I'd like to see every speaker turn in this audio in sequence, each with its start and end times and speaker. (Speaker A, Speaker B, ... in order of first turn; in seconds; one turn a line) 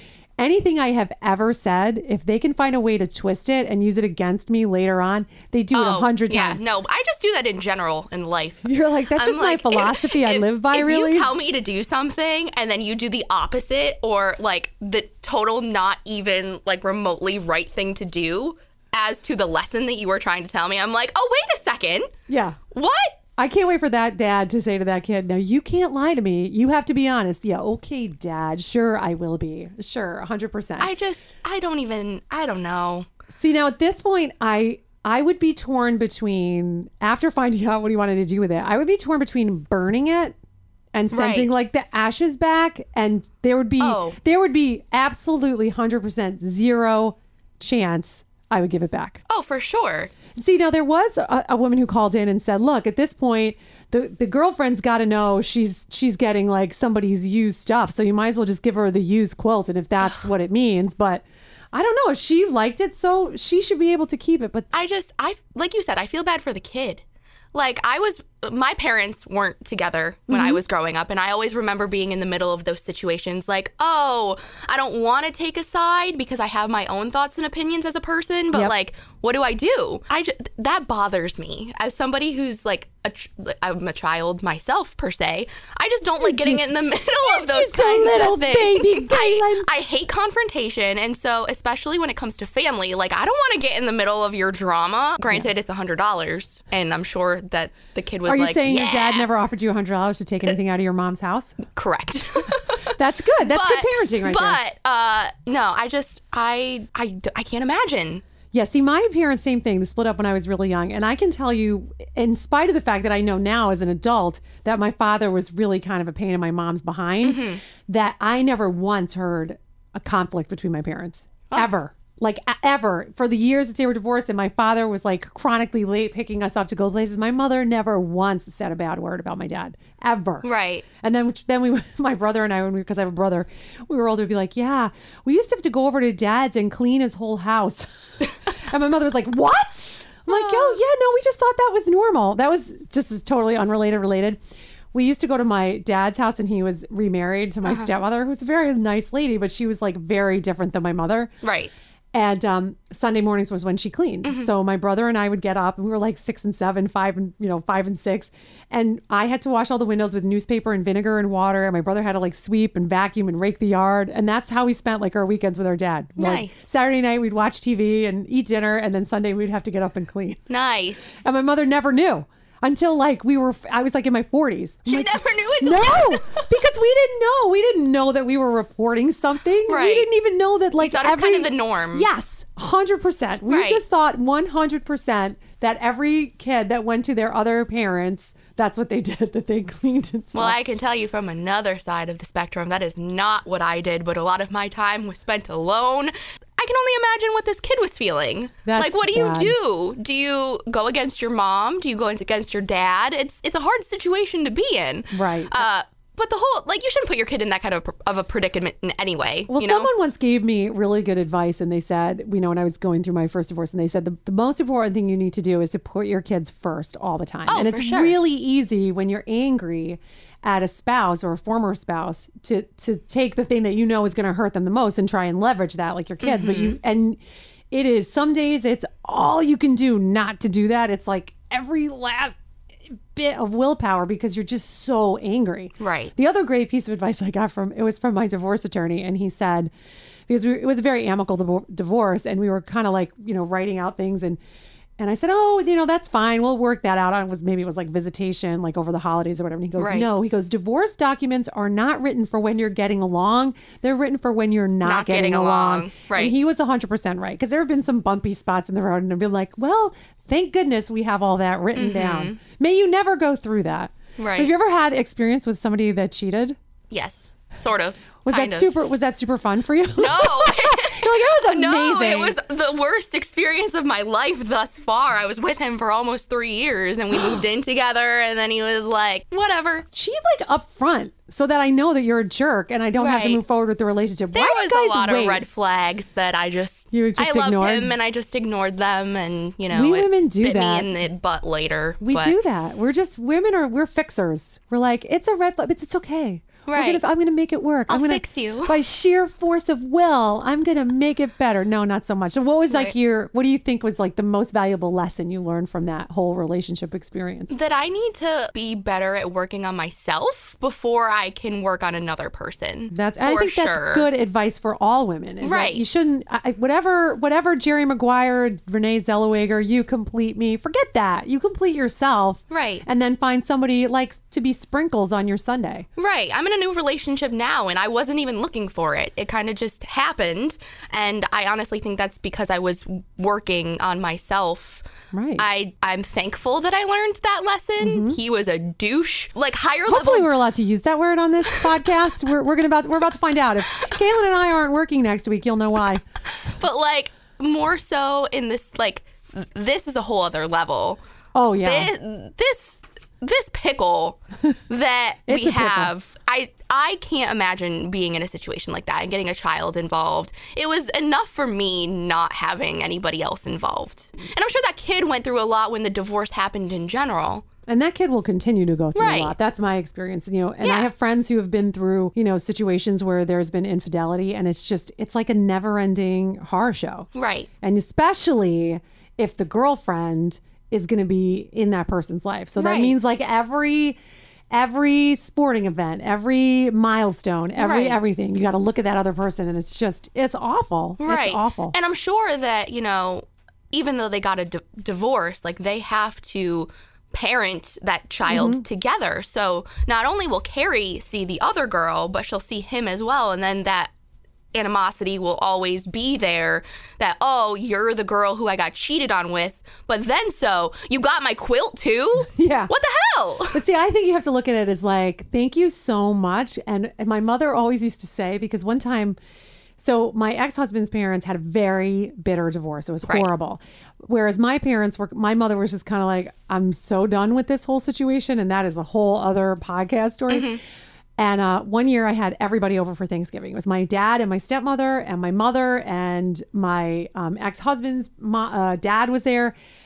Speaker A: 0.4-6.6
Speaker B: 5.7-22.1
Speaker A: 8.6-11.3
Speaker A: 22.3-22.6
Speaker B: 22.7-23.2
Speaker A: 23.4-30.9
Speaker B: 30.8-33.1
Speaker A: 33.3-40.4
Speaker A: 40.9-49.2
Speaker B: 41.1-41.5
Speaker B: 43.8-44.2
Speaker B: 49.3-50.1
Speaker A: 50.4-64.7
Speaker B: 64.7-67.0
Speaker B: 67.5-99.3
Speaker A: 70.3-70.6
Speaker A: 86.2-89.7
Speaker A: 98.3-101.6
Speaker B: 101.8-108.2
Speaker A: 102.8-104.6
Speaker A: 108.5-130.5
Speaker B: 117.2-117.6
Speaker B: 130.4-130.8
Speaker A: 131.0-144.4
Speaker B: 140.3-140.8
Speaker A: 144.9-151.3
Speaker B: 147.6-147.9
Speaker B: 151.4-151.7
Speaker A: 152.1-170.4
Speaker B: 154.2-154.5
Speaker B: 166.2-166.7
Speaker B: 170.5-171.3
Speaker A: 171.1-190.6
Speaker B: 174.9-176.5
Speaker B: 179.7-180.1
Speaker B: 180.8-182.1
Speaker B: 183.5-183.8
Speaker B: 190.3-209.9
Speaker A: 198.7-199.6
Speaker A: 205.1-205.7
Speaker A: 209.5-227.2
Speaker B: 217.5-218.2
Speaker B: 226.2-226.8
Speaker A: 227.7-232.4
Speaker A: 233.1-239.7
Speaker B: 235.8-236.1
Speaker A: 240.3-244.4
Speaker A: 245.0-266.6
Speaker B: 249.8-250.1
Speaker B: 254.8-256.3
Speaker B: 261.8-262.4
Speaker B: 264.2-264.5
Speaker B: 266.9-268.7
Speaker A: 268.2-272.4
Speaker B: 270.0-279.9
Speaker A: 279.9-285.4
Speaker B: 282.9-283.4
Speaker B: 284.3-292.4
Speaker A: 286.9-288.0
Speaker A: 289.7-291.0
Speaker A: 292.0-307.6
Speaker B: 296.7-297.0
Speaker B: 297.9-298.7
Speaker B: 307.5-314.1
Speaker A: 312.9-325.9
Speaker B: 315.4-315.8
Speaker B: 322.5-322.8
Speaker B: 326.0-334.9
Speaker A: 335.1-335.4
Speaker B: 335.4-340.3
Speaker A: 337.8-338.2
Speaker A: 339.9-346.0
Speaker B: 346.4-351.0
Speaker A: 351.3-351.9
Speaker B: 351.6-367.5
Speaker A: 355.3-355.9
Speaker A: 367.7-377.1
Speaker B: 368.9-369.4
Speaker B: 370.6-370.9
Speaker B: 377.1-377.5
Speaker A: 377.6-384.0
Speaker B: 382.6-383.0
Speaker A: 384.5-391.8
Speaker B: 387.6-388.0
Speaker B: 391.0-403.9
Speaker A: 398.2-398.6
Speaker B: 404.5-413.6
Speaker A: 412.3-412.7
Speaker A: 413.5-419.2
Speaker A: 419.8-430.6
Speaker B: 430.3-430.6
Speaker A: 431.2-439.6